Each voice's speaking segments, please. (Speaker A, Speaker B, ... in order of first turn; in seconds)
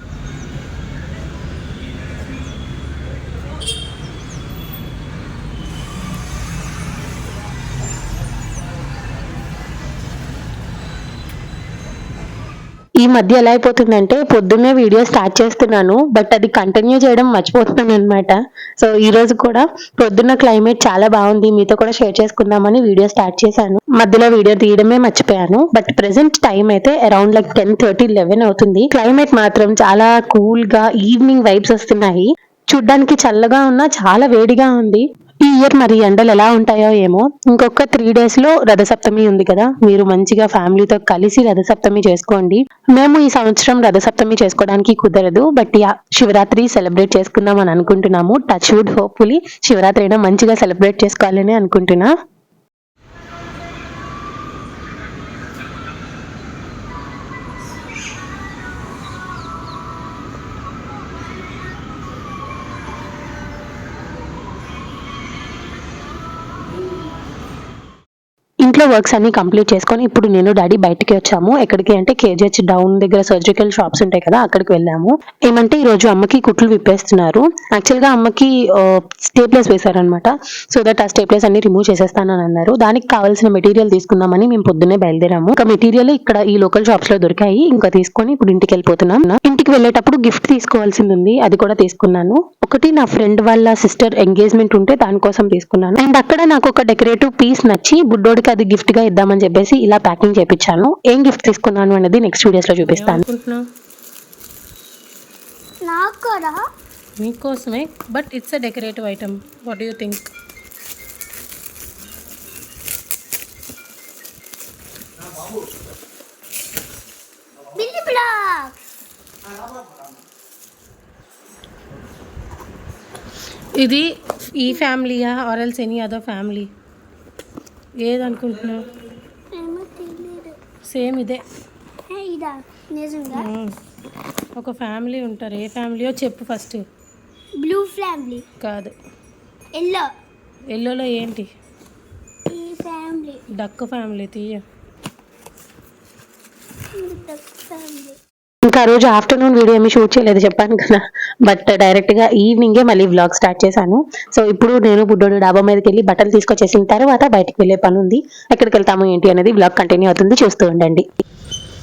Speaker A: 13.0-52.1, 68.6-103.2, 148.7-161.1
Speaker B: 102.9-103.7, 107.2-110.3, 123.8-126.7, 128.0-128.9, 130.8-131.4, 133.3-133.8, 134.6-136.8, 138.6-138.9, 140.7-141.5, 143.5-144.6
Speaker C: 105.8-106.6, 117.7-118.8, 129.5-130.6, 132.1-133.5, 137.6-138.5, 139.8-140.1, 142.5-143.4, 146.9-148.2